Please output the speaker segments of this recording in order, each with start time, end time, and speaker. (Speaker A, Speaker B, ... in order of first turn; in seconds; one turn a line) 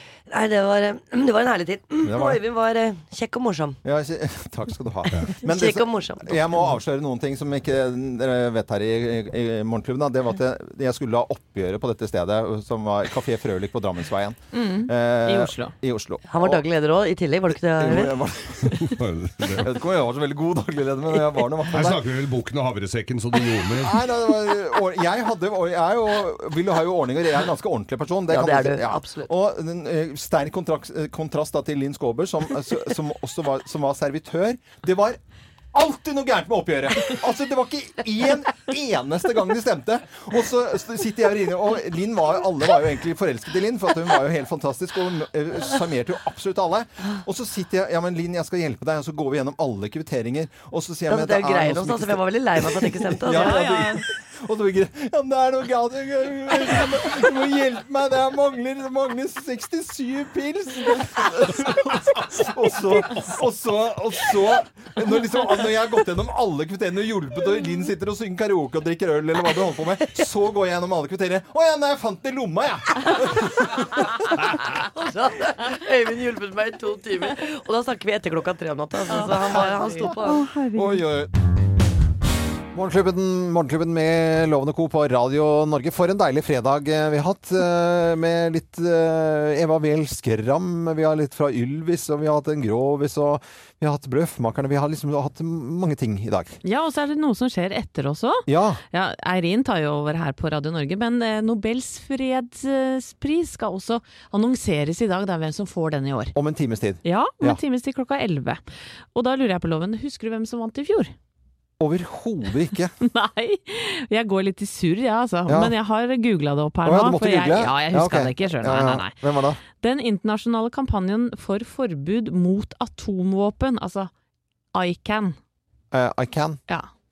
Speaker A: 0.3-3.8
Speaker B: 2.0-2.4
Speaker B: 3.8-16.6
Speaker A: 5.4-6.7
Speaker C: 14.5-15.7
Speaker A: 16.3-18.1
Speaker B: 17.7-18.9
Speaker D: 18.6-19.6
Speaker B: 19.5-22.0
Speaker D: 21.7-24.0
Speaker B: 23.8-35.2
Speaker A: 28.3-29.3
Speaker B: 35.7-73.7
Speaker A: 51.1-53.7
Speaker C: 53.3-54.0
Speaker A: 74.8-80.5
Speaker C: 79.1-81.0
Speaker B: 82.7-96.6
Speaker C: 96.6-106.3
Speaker B: 98.5-98.8
Speaker B: 106.3-107.6
Speaker C: 107.0-108.6
Speaker C: 109.1-111.1
Speaker B: 111.8-112.9
Speaker C: 113.0-124.1
Speaker B: 116.8-119.6
Speaker C: 124.7-125.4
Speaker B: 125.9-126.6